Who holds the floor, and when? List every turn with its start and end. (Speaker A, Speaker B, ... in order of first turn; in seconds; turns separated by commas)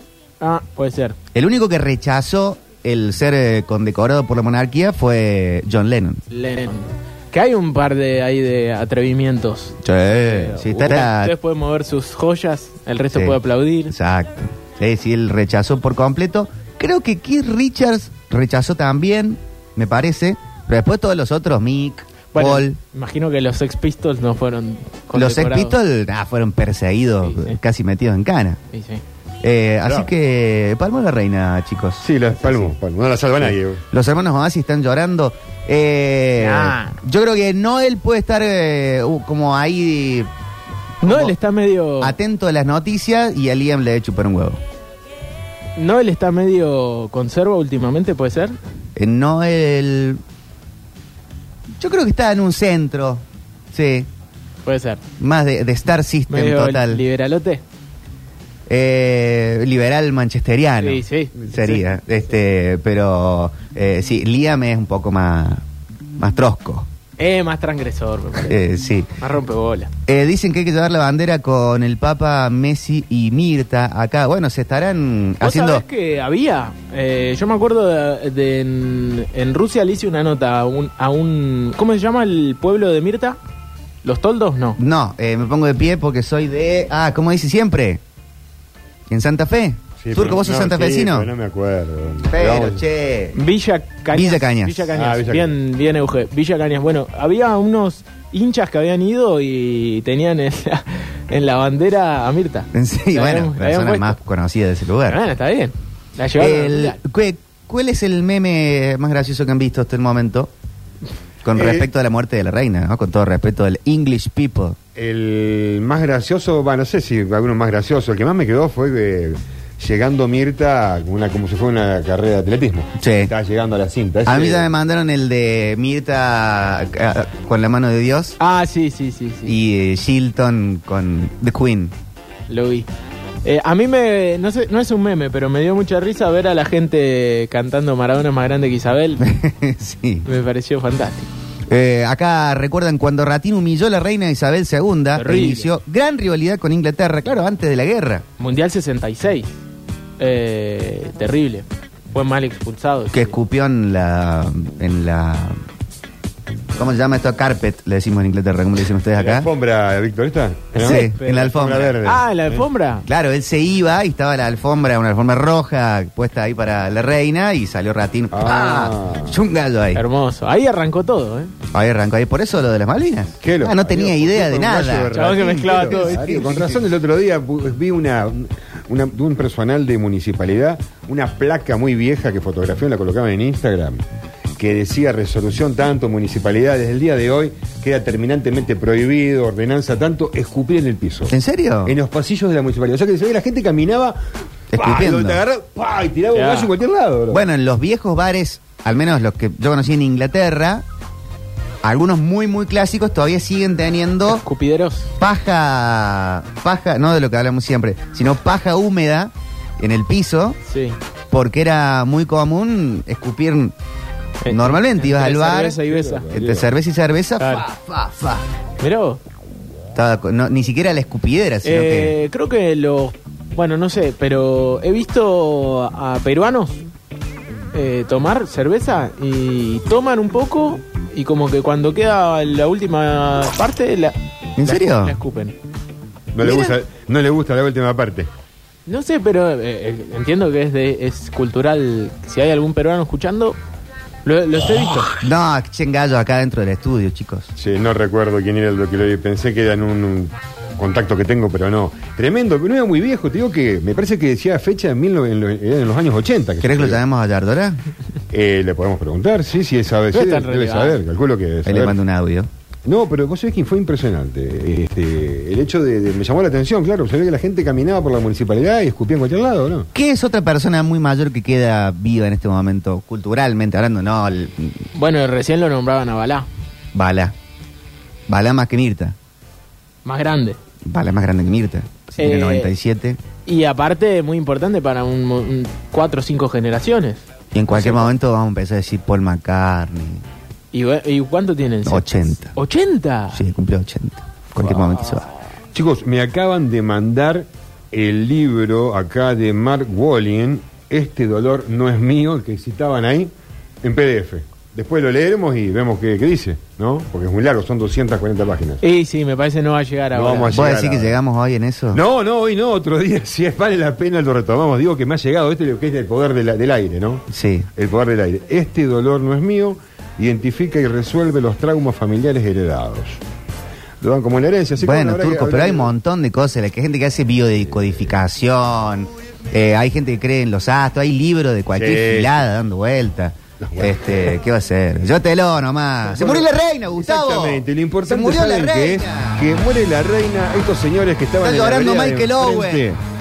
Speaker A: 0.4-1.2, Speaker B: 1.3-6.2, Speaker A: 6.3-13.9, Speaker B: 9.8-11.3, Speaker B: 13.1-22.8, Speaker A: 22.3-25.8, Speaker B: 25.1-28.6, Speaker A: 27.2-27.6, Speaker A: 28.7-29.0, Speaker B: 29.4-32.7, Speaker C: 29.9-30.1, Speaker C: 32.0-33.8, Speaker B: 33.5-40.3, Speaker A: 36.4-37.0, Speaker A: 41.0-42.2, Speaker B: 41.0-41.4, Speaker B: 42.0-44.6, Speaker A: 45.8-48.5, Speaker B: 49.0-50.2, Speaker B: 51.8-54.1, Speaker A: 54.7-55.0, Speaker B: 55.2-57.0, Speaker A: 56.3-57.6, Speaker B: 58.7-65.6, Speaker A: 60.8-61.9, Speaker B: 66.2-66.9, Speaker A: 67.2-68.6, Speaker B: 68.5-69.1, Speaker A: 69.2-69.9, Speaker B: 70.1-75.8, Speaker A: 75.4-83.4, Speaker A: 84.0-84.8, Speaker B: 84.8-88.0, Speaker B: 89.1-91.3, Speaker C: 90.0-92.8, Speaker B: 92.3-93.4, Speaker A: 93.3-104.2, Speaker B: 94.1-94.9, Speaker C: 95.0-95.6, Speaker B: 102.7-105.2, Speaker A: 105.1-107.0, Speaker B: 106.4-110.5, Speaker B: 111.4-114.8, Speaker C: 111.5-111.9, Speaker C: 115.0-124.7, Speaker B: 123.0-123.3, Speaker B: 124.3-128.4, Speaker A: 128.4-129.6, Speaker B: 129.4-131.9, Speaker A: 132.5-132.9, Speaker A: 133.4-139.2, Speaker B: 139.2-140.3, Speaker A: 140.2-141.3, Speaker B: 141.7-148.2, Speaker A: 145.2-145.7, Speaker A: 148.4-149.5, Speaker A: 150.2-153.3, Speaker B: 153.1-155.6, Speaker B: 156.8-159.5, Speaker C: 159.2-162.7, Speaker B: 160.8-162.0, Speaker A: 160.8-163.1, Speaker B: 163.1-170.0, Speaker C: 168.3-169.4, Speaker A: 169.9-171.5, Speaker B: 171.7-176.7, Speaker C: 173.4-184.0, Speaker A: 175.1-176.4, Speaker C: 184.6-194.2, Speaker B: 191.3-192.0, Speaker B: 194.7-195.4, Speaker C: 194.7-197.4, Speaker A: 196.3-196.7, Speaker B: 197.3-200.8, Speaker B: 201.8-204.4, Speaker A: 204.3-205.1, Speaker B: 205.2-210.6, Speaker A: 210.7-211.0, Speaker B: 211.3-213.8, Speaker A: 214.4-216.3, Speaker B: 214.5-215.8, Speaker C: 215.9-216.7, Speaker B: 216.3-218.4, Speaker A: 217.4-217.7, Speaker A: 218.8-219.2, Speaker B: 219.9-222.2, Speaker A: 221.6-226.9, Speaker A: 227.7-235.6, Speaker B: 234.6-235.2, Speaker C: 236.3-238.3, Speaker B: 236.4-236.7, Speaker A: 238.9-243.6, Speaker A: 244.2-245.1, Speaker B: 245.2-247.5, Speaker C: 247.6-257.0, Speaker B: 256.6-257.8, Speaker C: 258.3-262.0, Speaker A: 260.1-261.0, Speaker B: 261.6-262.5, Speaker C: 262.9-269.9, Speaker B: 269.9-274.9, Speaker A: 274.9-276.5, Speaker B: 276.9-277.3, Speaker B: 278.3-279.1, Speaker A: 280.1-280.6, Speaker B: 280.8-283.2, Speaker A: 282.2-282.7, Speaker A: 283.5-288.1, Speaker B: 287.5-290.2, Speaker A: 290.7-293.4, Speaker B: 291.9-292.5, Speaker B: 293.3-295.2, Speaker C: 295.7-308.8, Speaker A: 308.8-310.6, Speaker C: 310.1-311.2, Speaker B: 310.5-312.0, Speaker C: 311.9-317.2, Speaker B: 317.3-317.7, Speaker C: 317.8-323.2, Speaker C: 324.0-325.9, Speaker B: 324.8-339.5, Speaker C: 331.7-332.4, Speaker C: 333.6-334.4, Speaker C: 336.1-343.0, Speaker B: 341.4-342.9